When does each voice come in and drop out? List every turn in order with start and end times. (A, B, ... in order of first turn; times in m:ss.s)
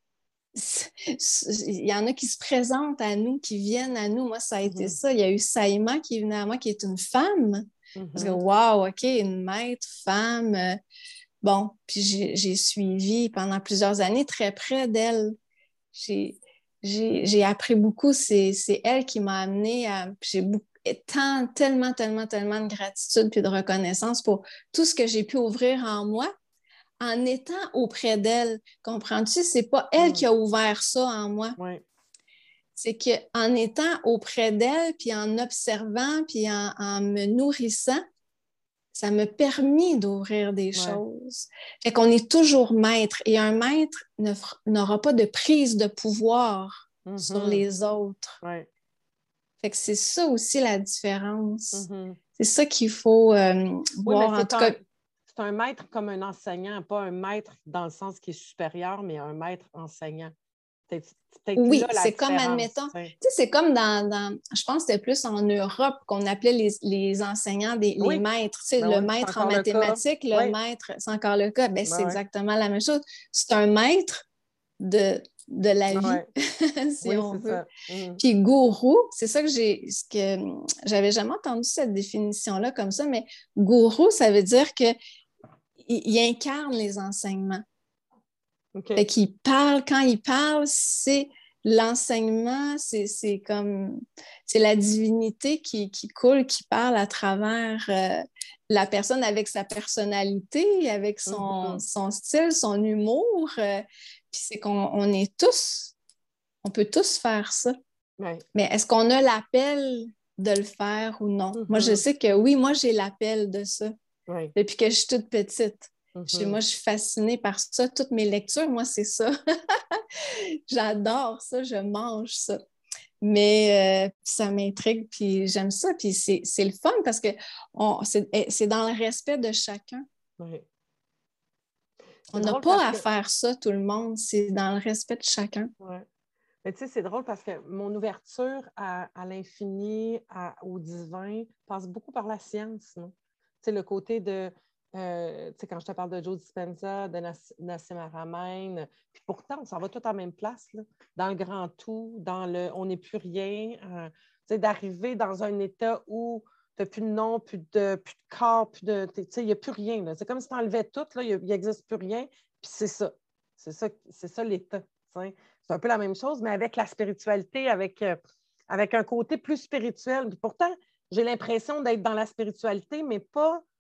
0:00.5-0:10.8 A
0:04.6-0:05.0 B
0:08.0-0:08.4 B
0:11.4-0:15.4 A
0:15.9-0:26.3 A
0:27.0-0:31.6 A
0:30.0-0:30.3 B
0:31.6-0:31.8 B
0:32.8-0:38.0 A
0:38.9-0:48.4 A
0:40.7-0:41.0 B
0:47.1-0:47.6 B
0:48.4-0:48.7 B
0:49.6-0:51.9 A
0:51.7-0:52.2 B
0:52.4-0:54.8 A
0:54.1-1:00.3 B
1:00.9-1:03.2 B
1:01.6-1:14.2 A
1:08.0-1:08.2 B
1:08.8-1:10.6 B
1:11.8-1:12.2 B
1:14.8-1:17.7 A
1:15.9-1:16.3 B
1:17.0-1:18.2 B
1:18.2-1:25.0 A
1:25.8-1:27.6 A
1:28.8-1:29.1 B
1:29.0-1:45.9 A
1:41.3-1:41.8 B
1:46.6-1:47.7 A
1:48.2-1:48.4 B
1:48.6-1:53.9 A
1:51.6-1:52.0 B
1:54.3-1:54.5 B
1:54.6-2:02.6 A
1:56.1-1:56.6 B
2:03.2-2:10.0 A
2:10.4-2:10.7 B
2:12.3-2:15.7 A
2:12.3-2:13.0 B
2:15.8-2:16.1 B
2:16.6-2:48.2 B
2:48.7-2:53.6 B